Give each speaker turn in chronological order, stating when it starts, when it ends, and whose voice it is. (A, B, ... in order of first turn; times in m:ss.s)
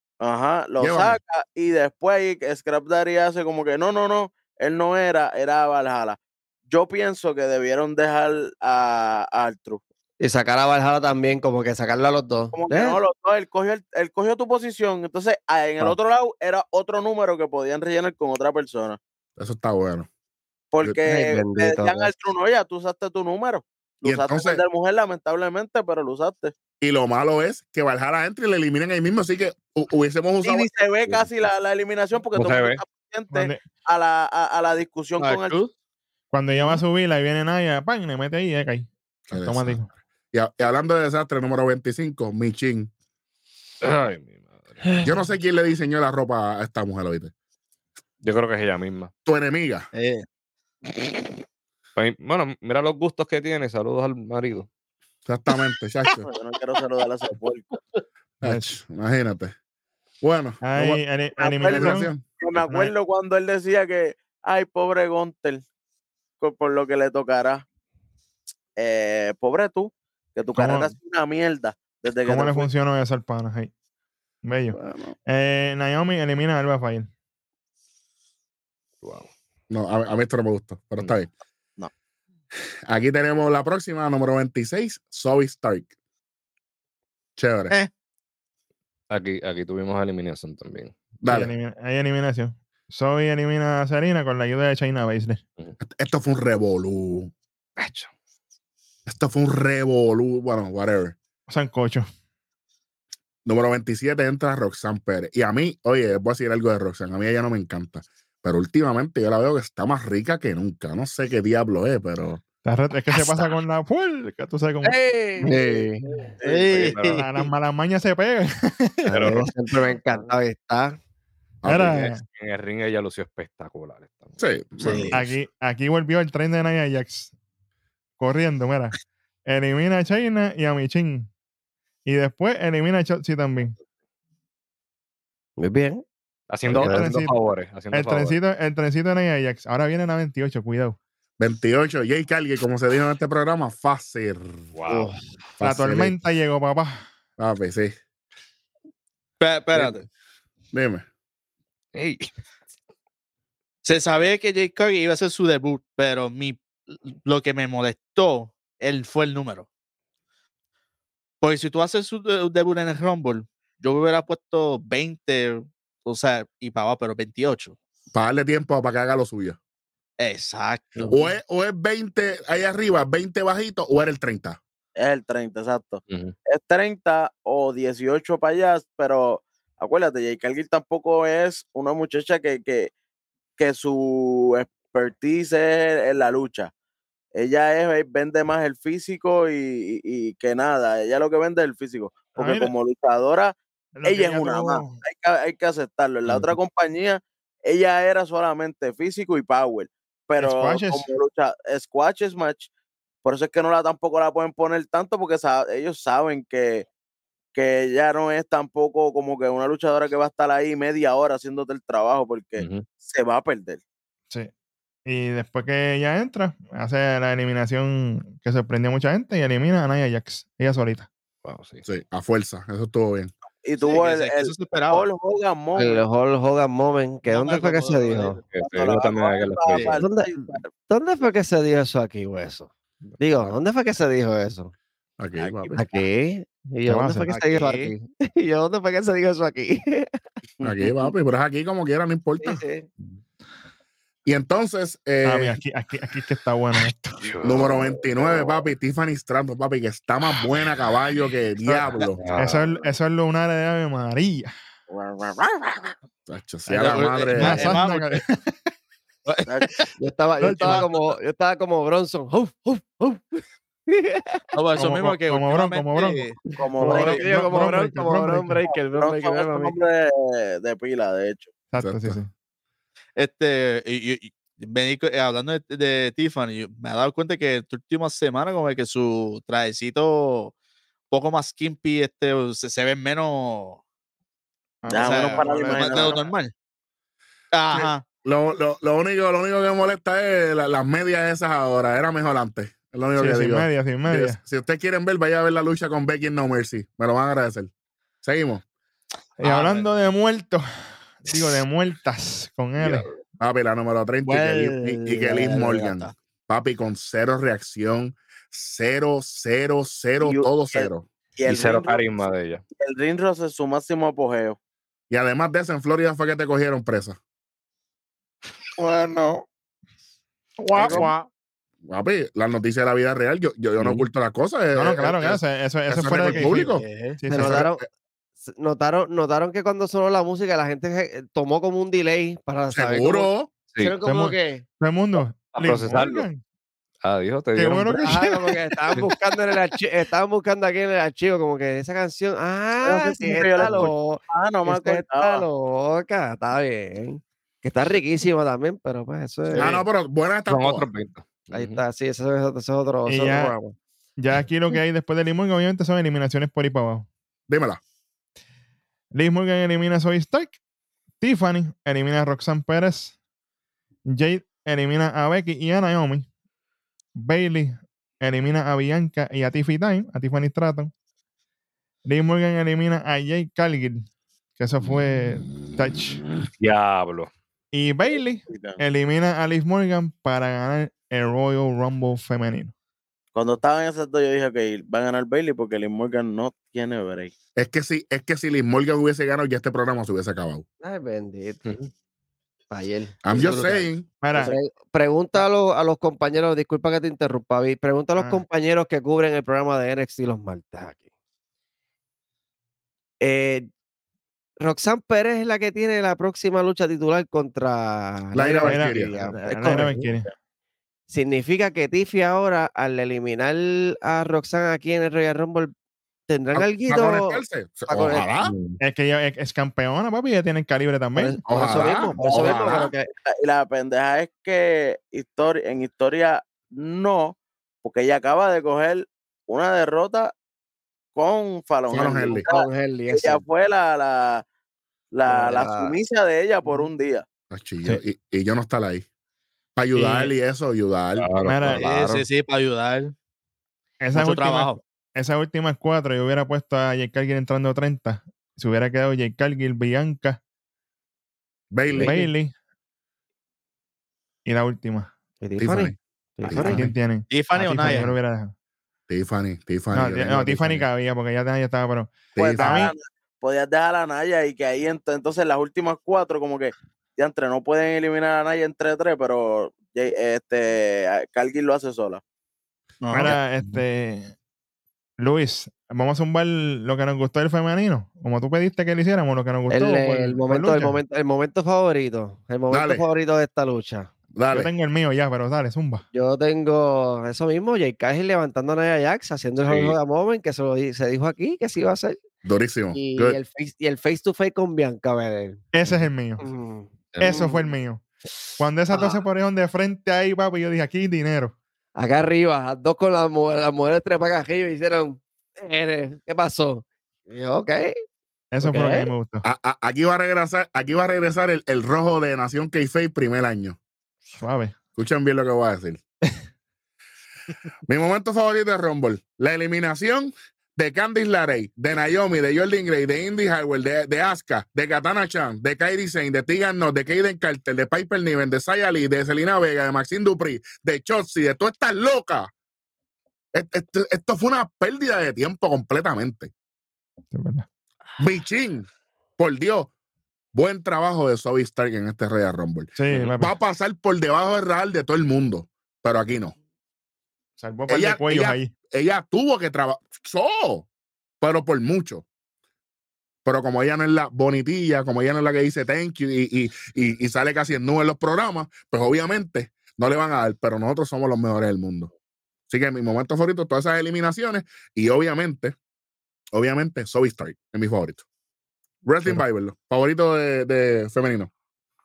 0:00.2-0:06.2 A
0:00.8-0:01.2 B
0:06.7-0:09.8 A
0:10.2-0:13.0 C
0:12.5-0:19.0 A
0:19.4-0:20.1 B
0:20.7-0:26.5 A
0:21.0-0:22.1 C
0:24.0-0:24.6 B
0:26.8-0:30.7 B
0:30.4-0:35.6 A
0:32.3-0:32.8 D
0:33.3-0:33.6 E
0:35.2-0:35.7 F
0:36.3-0:39.9 E
0:39.3-0:42.9 B
0:43.8-0:44.8 D
0:45.0-0:47.3 B
0:48.2-0:49.1 D
0:49.2-0:49.9 B
0:49.9-0:50.2 F
0:52.0-0:54.7 D
0:55.2-0:56.3 B
0:56.2-0:57.7 A
0:58.4-0:59.5 B
0:58.4-0:58.7 E
1:00.2-1:01.0 B
1:00.6-1:02.1 E
1:01.4-1:05.6 A
1:01.6-1:02.2 B
1:06.4-1:07.6 A
1:08.8-1:12.7 A
1:10.6-1:10.9 E
1:12.2-1:13.7 E
1:14.4-1:17.1 E
1:14.7-1:15.2 B
1:19.0-1:19.3 D
1:19.7-1:21.3 B
1:22.9-1:25.9 B
1:27.4-1:27.7 B
1:29.1-1:31.0 D
1:31.2-1:31.5 B
1:31.2-1:35.4 E
1:35.8-1:37.3 B
1:37.8-1:38.1 D
1:39.0-1:41.2 B
1:41.5-1:42.1 E
1:43.4-1:52.4 B
1:52.6-1:54.9 E
1:54.9-1:56.2 C
1:56.4-1:57.0 A
1:56.4-1:57.3 F
1:56.8-1:57.3 D
1:57.2-1:59.3 E
1:59.1-2:01.0 C
1:59.1-2:00.0 D
2:01.6-2:01.9 B
2:01.6-2:02.2 E
2:01.7-2:04.4 D
2:04.4-2:05.4 B
2:04.8-2:05.1 F
2:05.1-2:07.3 E
2:08.2-2:11.3 E
2:12.0-2:13.7 E
2:15.6-2:16.0 C
2:16.5-2:18.4 D
2:16.7-2:17.4 E
2:16.7-2:17.1 C
2:17.9-2:21.0 E
2:21.4-2:24.5 B
2:24.7-2:25.1 D
2:24.9-2:25.2 C
2:25.6-2:26.2 B
2:25.6-2:27.0 E
2:27.4-2:27.9 B
2:29.4-2:30.0 F
2:30.7-2:31.0 B
2:31.9-2:32.3 D
2:33.8-2:39.7 F
2:41.4-2:47.8 F
2:48.1-2:49.6 B
2:50.2-2:51.2 F
2:51.1-2:54.6 B
2:55.0-3:02.9 A
2:56.1-2:56.3 D
3:03.6-3:06.7 A
3:07.3-3:22.7 A
3:12.4-3:12.7 E
3:14.0-3:15.0 E
3:20.4-3:21.1 E
3:23.2-3:26.9 A
3:27.5-3:33.8 A
3:32.6-3:32.9 D
3:35.0-3:41.1 E
3:41.4-3:41.8 D
3:41.8-3:43.3 B
3:43.6-3:46.0 A
3:43.8-3:45.1 F
3:45.8-3:48.4 C
3:47.2-3:48.4 F
3:48.5-3:50.0 D
3:48.6-3:50.7 A
3:49.7-3:50.0 F
3:49.9-3:54.7 C
3:53.0-3:53.5 D
3:55.2-3:55.9 B
3:55.4-3:55.8 A
3:55.7-4:00.1 C
3:56.8-3:57.3 E
3:57.3-3:57.9 F
4:00.6-4:02.6 B
4:02.4-4:02.9 C
4:04.2-4:05.6 B
4:05.2-4:07.3 E
4:07.2-4:08.3 D
4:07.4-4:12.2 B
4:11.9-4:12.7 D
4:12.4-4:14.5 E
4:14.9-4:15.9 A
4:16.3-4:17.8 B
4:16.7-4:18.2 F
4:17.4-4:18.5 E
4:20.0-4:24.4 C
4:20.4-4:20.8 E
4:20.4-4:21.2 F
4:24.5-4:26.4 F
4:24.8-4:28.6 E
4:26.6-4:27.4 A
4:26.8-4:29.8 C
4:28.6-4:31.5 A
4:31.7-4:32.3 E
4:31.7-4:32.2 B
4:33.2-4:40.5 F
4:41.1-4:43.8 F
4:44.8-4:46.3 E
4:44.9-4:46.3 A
4:44.9-4:46.5 F
4:47.5-4:48.0 F
4:47.7-4:57.7 B
4:53.2-4:54.4 E
4:58.2-4:58.6 B
4:59.4-5:00.6 E
4:59.4-4:59.9 F
5:01.2-5:03.1 E
5:03.4-5:11.1 B
5:04.2-5:06.1 F
5:10.2-5:12.3 A
5:11.4-5:12.6 D
5:12.8-5:14.6 A
5:15.1-5:17.2 B
5:20.6-5:21.2 F
5:20.8-5:21.0 B
5:21.8-5:26.8 B
5:23.8-5:24.0 D
5:24.7-5:26.7 E
5:26.3-5:27.2 F
5:27.2-5:27.6 E
5:27.3-5:27.8 C
5:27.4-5:27.8 B
5:28.4-5:34.6 C
5:32.7-5:33.5 B
5:34.0-5:36.4 E
5:35.5-5:36.3 D
5:37.0-5:38.1 D
5:37.6-5:39.0 E
5:37.9-5:49.7 C
5:42.8-5:45.4 A
5:49.5-5:50.9 B
5:50.5-5:51.8 D
5:51.5-5:53.7 C
5:53.1-5:53.5 E
5:54.2-5:57.1 E
5:57.5-5:57.8 B
5:59.1-6:00.6 E
6:01.2-6:03.2 E
6:04.1-6:06.2 E
6:07.2-6:10.9 E
6:12.0-6:14.0 E
6:14.6-6:16.2 E
6:14.8-6:16.4 B
6:16.6-6:17.3 D
6:17.7-6:22.7 E
6:18.1-6:18.8 A
6:23.3-6:27.3 A
6:27.6-6:30.6 B
6:30.8-6:31.6 C
6:31.6-6:31.9 D
6:32.7-6:33.8 C
6:33.2-6:34.1 B
6:33.4-6:33.8 F
6:34.2-6:34.5 E
6:34.4-6:41.0 C
6:38.2-6:38.4 E
6:43.2-6:43.7 C
6:44.6-6:50.1 C
6:48.3-6:49.1 B
6:48.6-6:50.3 E
6:51.1-6:55.7 C
6:56.3-6:58.3 C
6:56.5-6:58.5 B
6:58.4-6:58.8 D
6:58.8-7:01.4 E
7:01.2-7:03.1 C
7:01.5-7:02.9 B
7:02.2-7:10.3 A
7:11.1-7:14.4 A
7:11.9-7:12.4 B
7:12.3-7:13.4 C
7:15.1-7:17.2 A
7:15.2-7:16.0 C
7:17.5-7:19.0 B
7:19.8-7:21.3 B
7:19.9-7:20.3 E
7:21.2-7:21.7 D
7:21.4-7:21.9 E
7:21.7-7:23.1 F
7:21.8-7:22.2 C
7:24.0-7:30.4 E
7:24.1-7:24.8 F
7:31.7-7:32.1 B
7:31.9-7:32.3 C
7:32.0-7:32.5 E
7:34.4-7:35.1 E
7:35.4-7:36.8 C
7:35.6-7:36.9 B
7:36.6-7:38.5 E
7:37.3-7:38.1 F
7:39.1-7:40.9 B
7:39.9-7:42.9 E
7:42.3-7:42.9 B
7:42.4-7:52.2 A
7:53.0-7:53.4 F
7:53.1-7:54.3 E
7:55.2-8:01.0 E
7:59.7-8:04.1 C
8:02.7-8:03.0 B
8:04.3-8:04.7 B
8:04.5-8:06.0 E
8:06.1-8:12.2 C
8:09.6-8:10.0 D
8:12.4-8:13.4 B
8:12.9-8:15.6 C
8:15.7-8:16.4 E
8:16.4-8:17.6 C
8:17.1-8:17.5 D
8:17.2-8:18.0 E
8:18.6-8:21.6 E
8:18.9-8:19.2 C
8:22.0-8:27.9 C
8:28.5-8:29.4 E
8:28.6-8:29.1 C
8:29.4-8:33.8 B
8:34.4-8:34.8 E
8:35.0-8:36.0 B
8:37.9-8:52.5 B
8:53.5-8:56.5 B
8:57.3-8:57.6 E
8:58.2-8:59.9 B
9:00.5-9:06.6 B
9:03.0-9:03.5 E
9:07.6-9:08.7 E
9:07.9-9:10.9 B
9:11.4-9:12.2 B
9:13.4-9:22.1 B
9:22.7-9:25.8 B
9:26.5-9:28.2 B
9:29.0-9:31.5 B